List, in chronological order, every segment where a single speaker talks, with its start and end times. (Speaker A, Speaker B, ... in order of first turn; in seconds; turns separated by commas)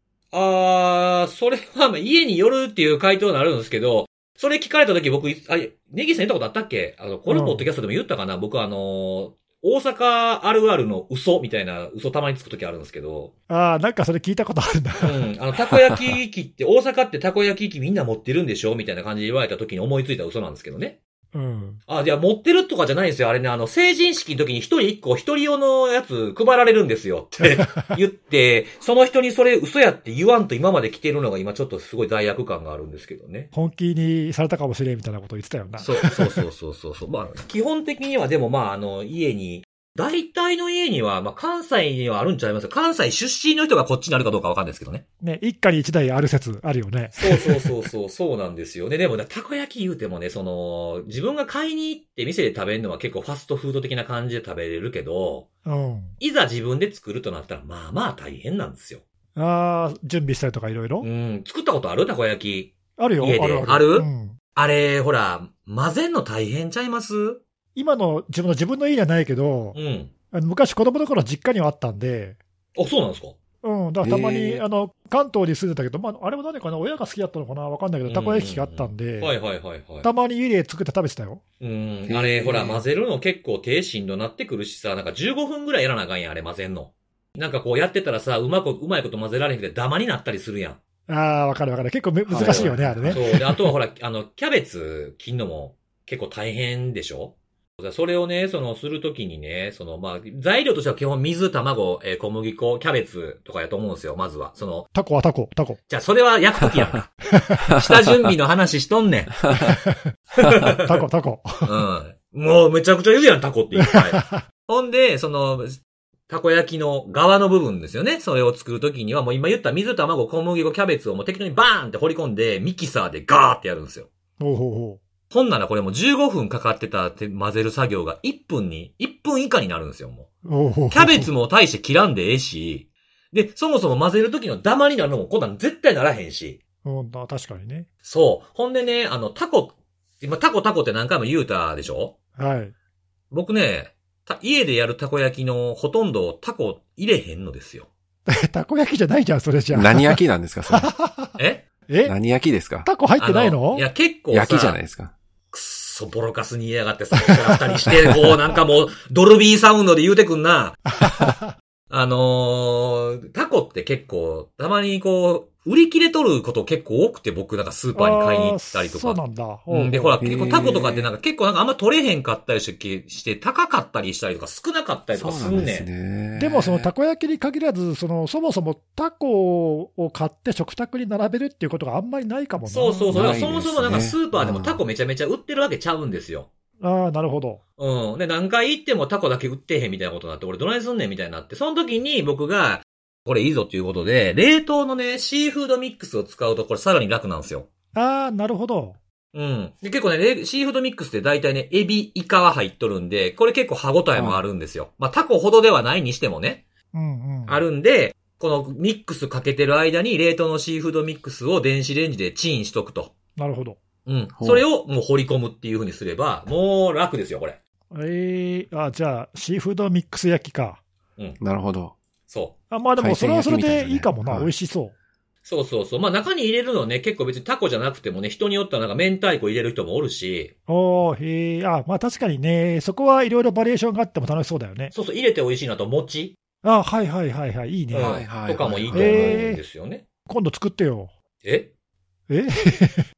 Speaker A: 0.3-13.3, Speaker B: 7.3-7.7, Speaker B: 13.5-15.3, Speaker A: 15.0-21.0, Speaker B: 21.3-21.8, Speaker A: 21.9-33.5, Speaker B: 27.5-27.9, Speaker B: 33.5-36.4, Speaker A: 35.8-45.0, Speaker B: 45.2-47.7, Speaker A: 47.2-55.5, Speaker B: 55.6-56.2, Speaker A: 56.2-59.0, Speaker B: 59.4-61.1, Speaker A: 61.0-67.4, Speaker B: 63.0-64.4, Speaker B: 67.8-69.8, Speaker A: 69.7-70.1, Speaker B: 70.3-72.4, Speaker A: 72.8-73.3, Speaker B: 73.6-79.3, Speaker C: 74.0-74.6, Speaker A: 78.1-80.1, Speaker B: 80.0-81.4, Speaker A: 81.6-90.8, Speaker C: 82.1-82.8, Speaker B: 91.1-93.7, Speaker C: 92.3-93.3, Speaker A: 92.4-104.9, Speaker B: 105.0-105.8, Speaker A: 105.9-107.1, Speaker B: 107.3-107.7, Speaker A: 107.7-109.7, Speaker B: 109.6-110.1, Speaker A: 110.4-111.0, Speaker B: 110.8-111.8, Speaker A: 111.6-124.1, Speaker B: 113.8-114.4, Speaker B: 124.4-125.0, Speaker A: 125.3-130.3, Speaker B: 130.4-131.3, Speaker A: 130.9-136.6, Speaker B: 136.8-137.9, Speaker A: 138.1-142.2, Speaker B: 142.4-142.7, Speaker A: 143.3-147.9, Speaker B: 148.3-151.3, Speaker C: 149.7-150.9, Speaker A: 151.4-151.7, Speaker B: 151.9-152.2, Speaker C: 152.0-152.9, Speaker B: 152.8-153.9, Speaker A: 153.2-154.8, Speaker C: 154.3-155.1, Speaker A: 155.5-160.8, Speaker B: 157.3-157.6, Speaker B: 160.9-161.5, Speaker A: 161.9-175.9, Speaker B: 167.9-170.7, Speaker C: 170.2-171.1, Speaker C: 175.1-176.9, Speaker B: 176.3-183.5, Speaker A: 182.7-186.5, Speaker C: 183.1-184.8, Speaker B: 186.8-187.6, Speaker A: 187.8-197.7, Speaker B: 197.9-199.0, Speaker A: 199.3-206.7, Speaker C: 204.2-204.4, Speaker B: 206.9-207.6, Speaker A: 207.5-213.1, Speaker B: 213.4-213.8, Speaker A: 214.1-217.6, Speaker C: 214.4-214.7, Speaker B: 217.9-220.8, Speaker C: 221.4-222.0, Speaker A: 222.3-222.5, Speaker B: 222.7-224.9, Speaker C: 223.0-224.5, Speaker A: 225.4-230.5, Speaker B: 230.7-234.9, Speaker A: 234.9-236.4, Speaker B: 236.6-238.3, Speaker A: 237.9-240.0, Speaker C: 237.9-239.4, Speaker B: 238.9-239.6, Speaker B: 240.3-241.1, Speaker A: 241.4-241.7, Speaker B: 242.3-243.1